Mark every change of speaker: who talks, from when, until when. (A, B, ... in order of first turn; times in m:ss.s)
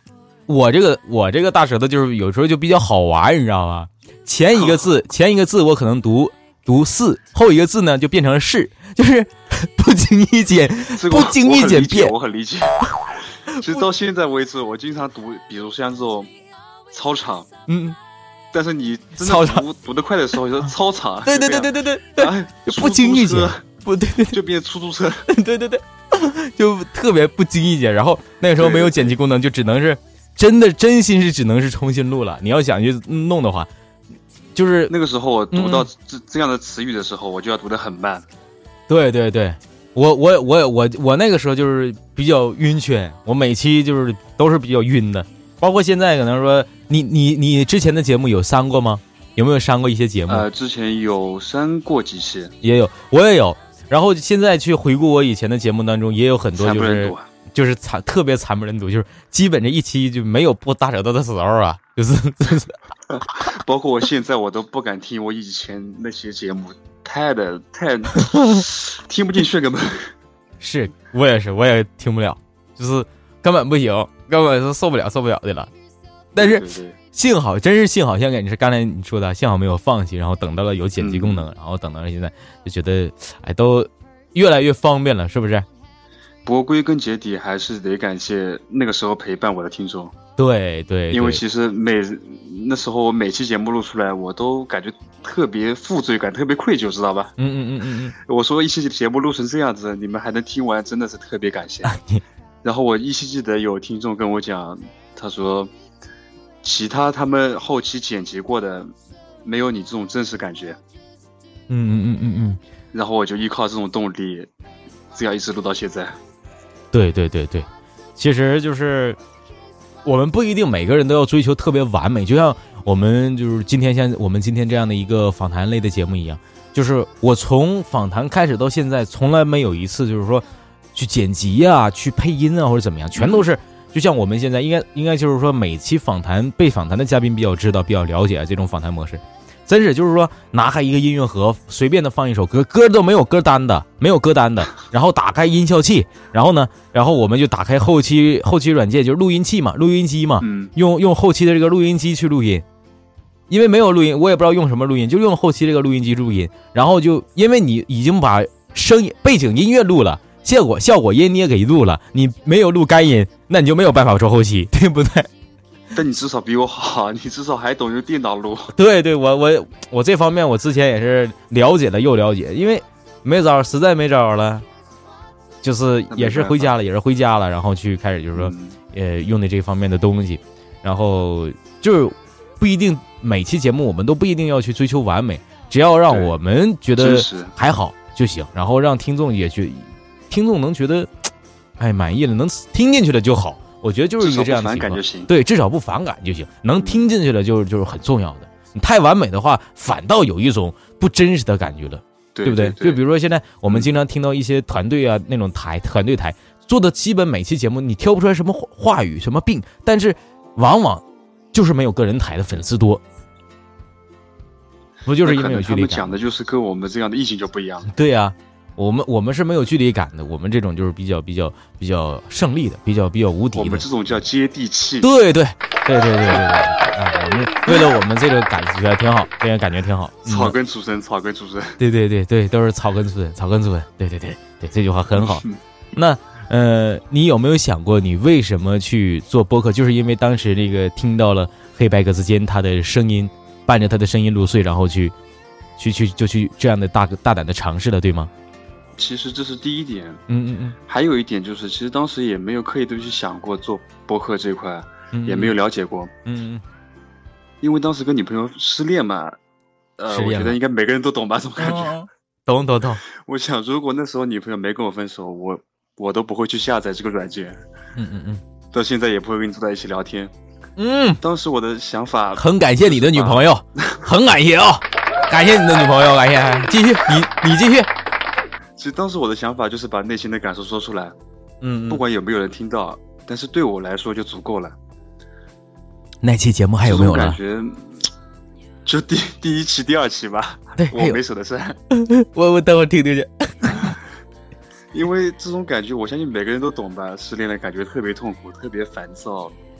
0:00.5-0:12.1 A
0:04.5-0:04.9 B
0:10.9-0:12.8 B
0:13.5-0:16.3 B
0:16.9-0:17.5 B
0:17.7-0:18.0 A
0:18.5-0:23.6 B
0:19.2-0:19.6 A
0:21.2-0:24.4 A
0:24.3-0:25.3 B
0:25.3-0:33.7 A
0:28.6-0:29.2 B
0:34.5-0:34.9 A
0:34.9-0:38.2 B
0:35.5-0:35.9 A
0:38.9-0:50.4 A
0:50.3-0:52.5 B
0:52.6-1:02.8 A
0:56.6-0:57.3 B
1:03.1-1:10.1 B
1:08.2-1:08.6 A
1:10.6-1:15.7 A
1:16.4-1:25.7 A
1:16.4-1:17.0 B
1:21.0-1:21.4 B
1:26.4-1:30.2 B
1:30.4-1:31.4 A
1:31.1-1:37.4 B
1:37.4-1:38.1 A
1:38.2-1:41.9 B
1:41.9-1:42.2 A
1:42.6-1:45.7 B
1:46.6-1:50.8 B
1:51.7-1:52.6 A
1:52.9-1:54.5 B
1:55.1-1:56.2 B
1:56.9-1:59.2 A
2:00.0-2:32.6 A
2:13.2-2:13.4 B
2:30.4-2:30.7 B
2:33.5-2:45.3 A
2:45.9-2:48.7 B
2:48.7-2:54.6 A
2:55.6-3:11.1 A
2:56.1-2:56.7 B
2:58.4-2:58.8 B
3:06.1-3:06.3 B
3:07.0-3:07.5 B
3:11.8-3:33.0 A
3:14.2-3:15.3 B
3:16.8-3:17.0 B
3:22.4-3:23.0 B
3:35.0-3:36.1 A
3:35.2-3:37.9 B
3:37.9-3:43.9 A
3:43.5-3:45.1 B
3:45.0-3:50.5 A
3:50.2-3:51.8 B
3:51.8-3:55.4 A
3:55.1-3:55.6 B
3:55.9-4:05.1 A
4:05.8-4:08.3 A
4:09.0-4:10.2 B
4:10.3-4:10.8 A
4:10.9-4:16.1 B
4:15.1-4:15.5 A
4:16.2-4:16.6 A
4:17.6-4:19.4 B
4:20.0-4:22.0 B
4:20.1-4:20.6 A
4:21.6-4:23.0 A
4:23.0-4:27.6 B
4:28.0-4:28.4 A
4:28.7-4:30.3 B
4:30.8-4:31.2 A
4:31.2-4:34.1 B
4:32.4-4:37.9 A
4:38.8-4:41.2 B
4:41.6-4:42.0 A
4:41.9-4:44.8 B
4:46.2-4:47.4 A
4:46.8-4:48.1 B
4:48.8-4:51.8 B
4:50.8-4:51.2 A
4:51.9-4:53.9 A
4:54.9-4:59.6 B